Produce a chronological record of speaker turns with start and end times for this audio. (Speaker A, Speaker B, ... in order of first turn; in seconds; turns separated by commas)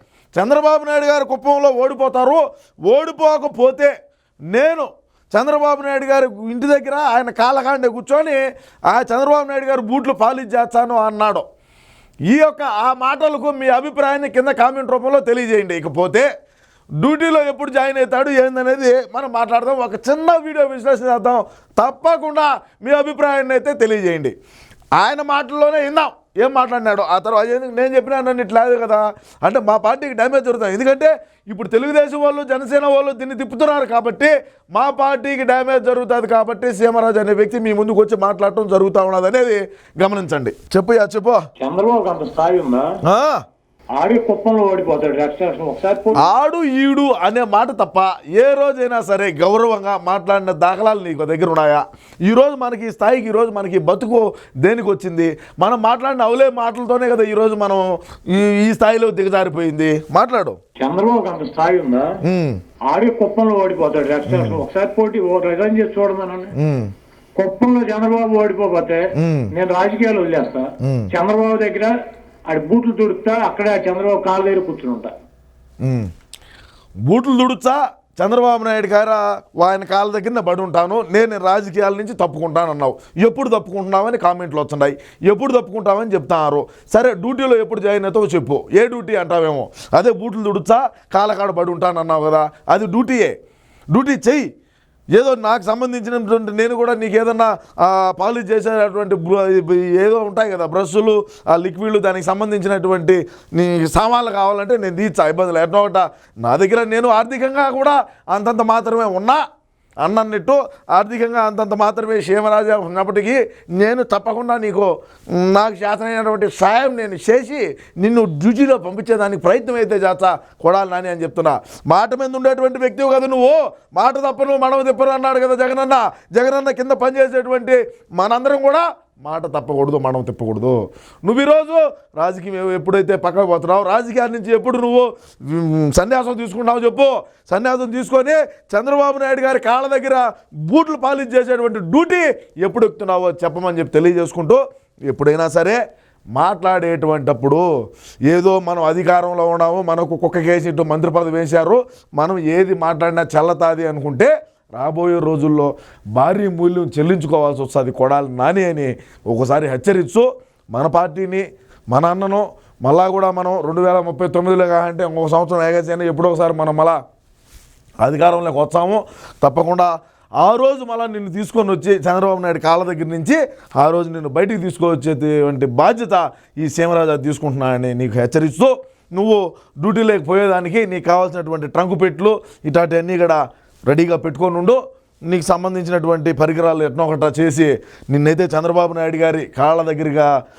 Speaker A: 0.3-3.9, Speaker A: 4.5-11.4, Speaker A: 12.3-16.3, Speaker A: 17.0-24.3, Speaker A: 25.0-41.4, Speaker B: 41.6-42.9, Speaker A: 43.0-43.4, Speaker B: 44.0-46.3, Speaker A: 46.2-60.6, Speaker B: 60.8-62.2, Speaker A: 62.2-62.6, Speaker B: 62.9-66.5, Speaker A: 64.3-64.6, Speaker A: 66.5-66.9, Speaker B: 67.4-71.9, Speaker A: 69.2-69.5, Speaker A: 70.8-71.1, Speaker B: 72.5-75.1, Speaker A: 75.8-76.1, Speaker A: 77.1-93.3, Speaker A: 93.9-94.5, Speaker A: 95.1-109.4, Speaker A: 110.0-145.8, Speaker A: 146.3-147.6, Speaker A: 148.3-167.0, Speaker A: 168.0-190.3